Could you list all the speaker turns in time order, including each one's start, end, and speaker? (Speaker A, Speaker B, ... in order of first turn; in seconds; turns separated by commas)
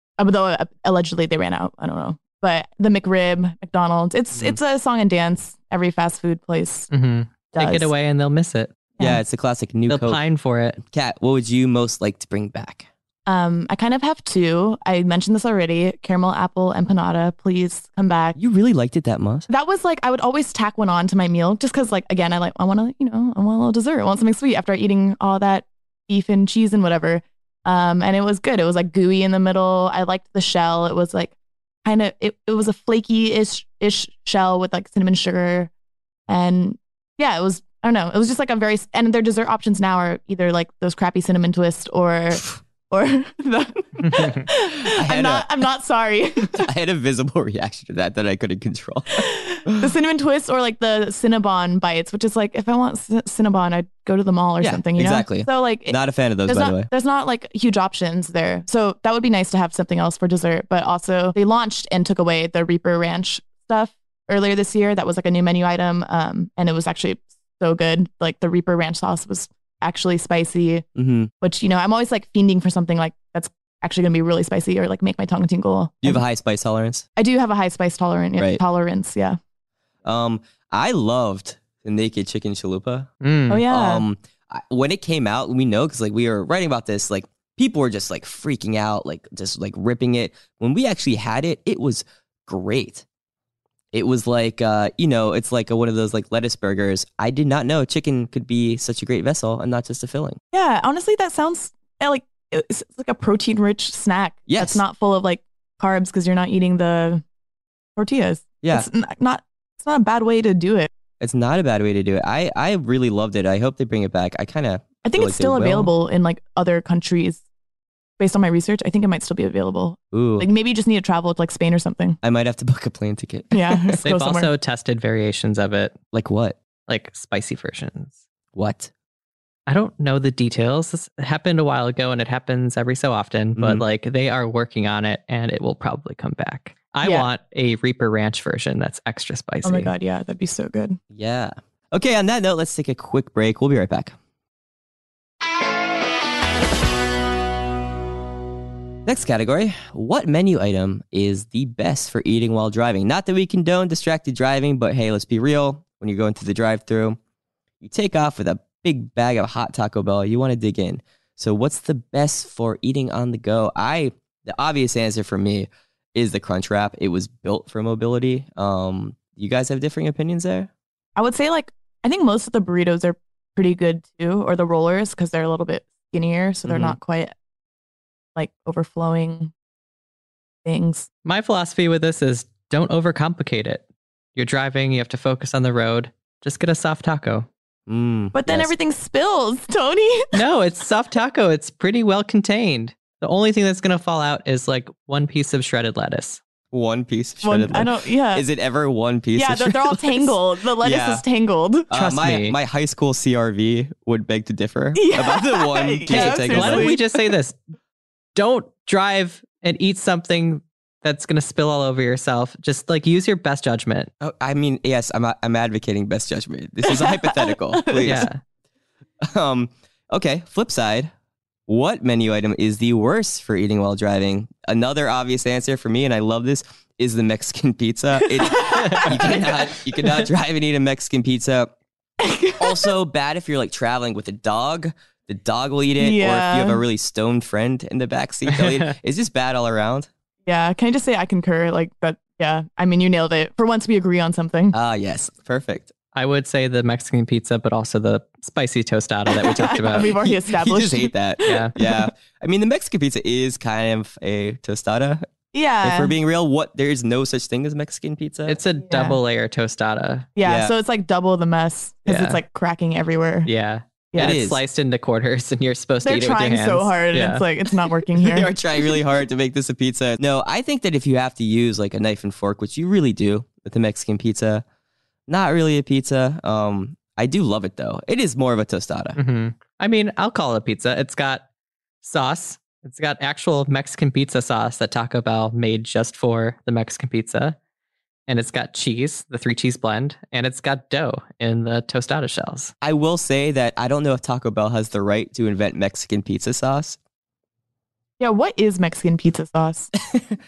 Speaker A: 0.2-6.9, Speaker B: 6.9-8.7, Speaker A: 7.5-7.9, Speaker C: 9.0-10.2, Speaker B: 9.9-10.8, Speaker C: 10.8-12.9, Speaker A: 13.2-18.4, Speaker C: 18.4-19.5, Speaker A: 19.5-35.7, Speaker A: 36.3-46.7, Speaker B: 44.0-44.4, Speaker C: 44.7-45.5, Speaker C: 46.5-49.9, Speaker A: 49.1-70.8, Speaker C: 54.6-56.9, Speaker C: 71.0-71.3, Speaker A: 71.4-76.2, Speaker C: 76.0-77.0, Speaker A: 77.2-79.4, Speaker C: 80.0-83.1, Speaker B: 83.2-83.7, Speaker A: 83.5-84.0, Speaker C: 83.7-93.0, Speaker C: 93.9-100.4, Speaker A: 100.5-107.2, Speaker C: 104.5-104.8, Speaker A: 108.0-110.9, Speaker C: 108.6-108.9, Speaker C: 111.2-115.9, Speaker A: 115.0-117.4, Speaker A: 118.2-122.2, Speaker C: 120.1-120.5, Speaker C: 122.2-124.0, Speaker A: 123.5-124.5, Speaker B: 124.0-126.0, Speaker C: 126.1-126.6, Speaker B: 126.9-128.2, Speaker C: 128.5-128.9, Speaker B: 129.7-139.9, Speaker C: 133.6-133.8, Speaker A: 137.0-137.3, Speaker A: 139.6-141.0, Speaker C: 141.1-144.1, Speaker C: 149.1-157.2, Speaker C: 157.8-170.7, Speaker A: 171.2-177.3, Speaker B: 176.7-176.9, Speaker A: 178.4-179.5, Speaker A: 180.6-181.1, Speaker B: 181.2-183.8, Speaker B: 184.4-187.5, Speaker C: 187.9-188.7, Speaker A: 188.3-190.4, Speaker B: 190.3-196.4, Speaker C: 196.7-201.2, Speaker A: 197.4-198.4, Speaker A: 199.3-201.9, Speaker C: 201.9-206.9, Speaker B: 201.9-202.6, Speaker A: 204.9-207.3, Speaker B: 206.1-207.6, Speaker B: 208.4-214.1, Speaker C: 214.2-218.3, Speaker A: 216.8-218.3, Speaker B: 218.0-218.4, Speaker C: 219.2-221.1, Speaker C: 221.7-231.7, Speaker A: 228.3-229.5, Speaker B: 228.6-229.3, Speaker A: 232.2-232.9, Speaker C: 232.6-240.1, Speaker A: 236.0-236.8, Speaker B: 238.5-238.9, Speaker A: 240.4-244.7, Speaker C: 244.7-245.9, Speaker B: 246.1-250.2, Speaker A: 249.3-252.1, Speaker C: 250.3-255.3, Speaker B: 251.4-251.7, Speaker A: 255.5-256.1, Speaker C: 255.8-258.6, Speaker B: 258.5-260.3, Speaker A: 258.9-259.2, Speaker A: 260.4-263.5, Speaker C: 260.4-260.7, Speaker B: 262.1-262.4, Speaker B: 263.4-267.4, Speaker A: 264.1-264.4, Speaker C: 264.2-264.6, Speaker A: 266.0-268.5, Speaker C: 268.2-274.6, Speaker C: 275.3-279.2, Speaker B: 279.1-281.4, Speaker B: 282.0-287.6, Speaker B: 288.3-292.7, Speaker C: 292.8-297.0, Speaker A: 298.2-299.9